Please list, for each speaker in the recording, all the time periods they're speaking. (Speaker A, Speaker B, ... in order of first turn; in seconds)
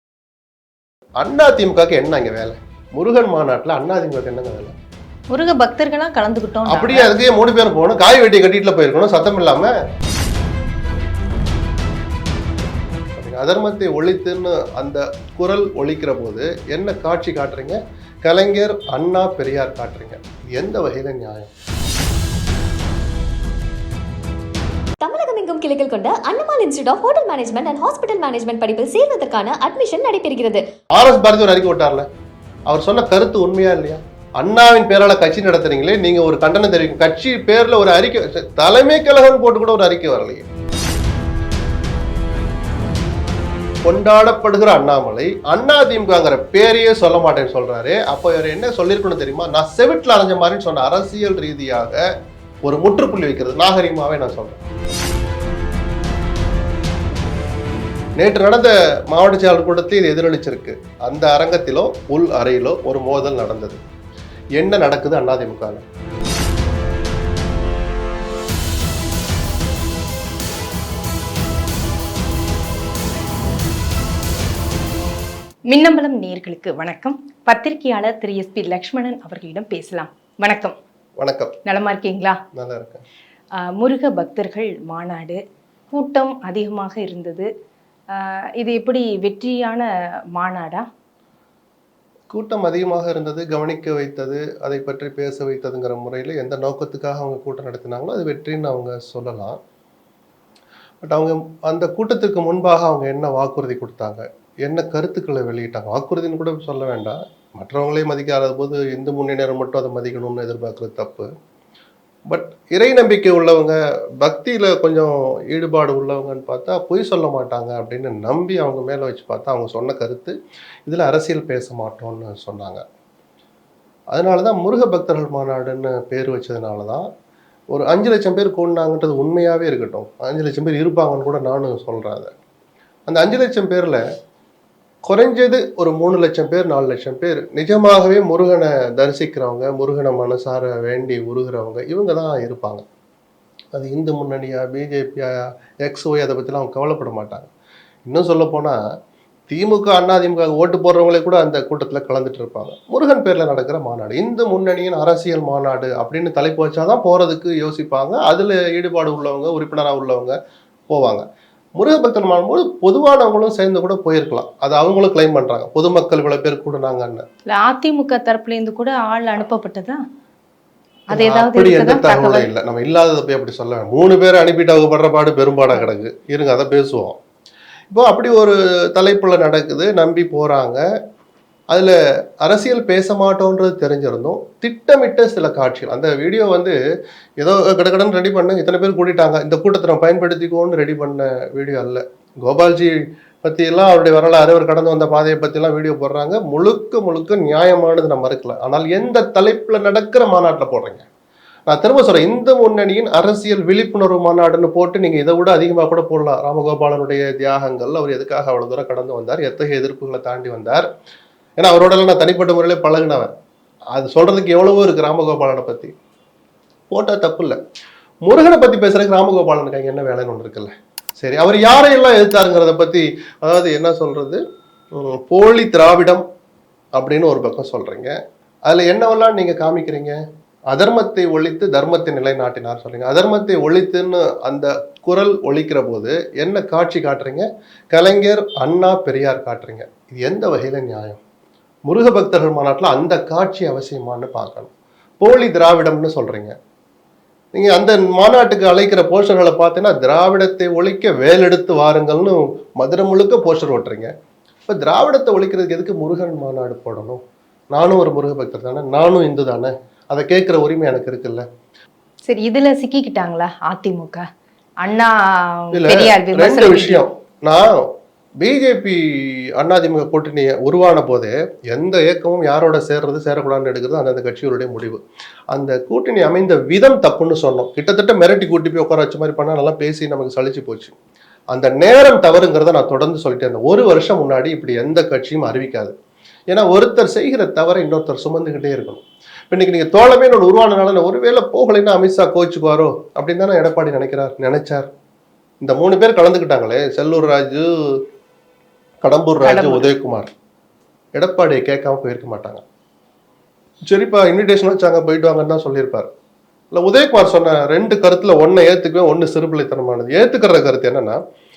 Speaker A: 1.2-4.7, 6.7-9.7, 13.2-21.5, 30.9-32.0, 32.7-40.4, 43.8-52.0, 52.6-54.6, 58.2-63.8, 64.6-65.8, 81.2-81.5, 82.5-83.0, 92.3-99.6, 101.0-111.3, 112.3-120.3, 120.8-122.8, 124.1-127.0, 127.7-132.3, 133.1-134.0, 135.1-142.8, 143.7-147.5, 148.1-148.8, 149.5-160.3, 160.9-161.2, 161.8-167.2, 171.1-177.2, 177.9-180.8, 181.7-186.7, 187.4-201.0, 201.7-210.8, 211.6-213.3, 213.9-215.9, 216.9-217.6, 218.2-224.4, 224.9-226.2, 226.9-230.2, 230.7-241.2, 241.9-246.5, 247.5-254.1, 254.7-257.2, 257.7-261.4, 265.7-267.8, 268.4-275.0, 275.5-280.9, 281.5-285.9, 286.5-294.9, 295.6-298.0, 299.0-300.3, 301.1-302.6, 303.9-306.1, 306.7-311.2
Speaker B: 5.3-7.1, 75.7-80.7, 81.7-82.4, 83.6-85.4, 85.9-87.5, 88.2-90.8, 167.5-170.0, 171.1-172.5, 262.2-264.2, 264.8-267.0, 299.4-299.9
Speaker C: 25.0-30.6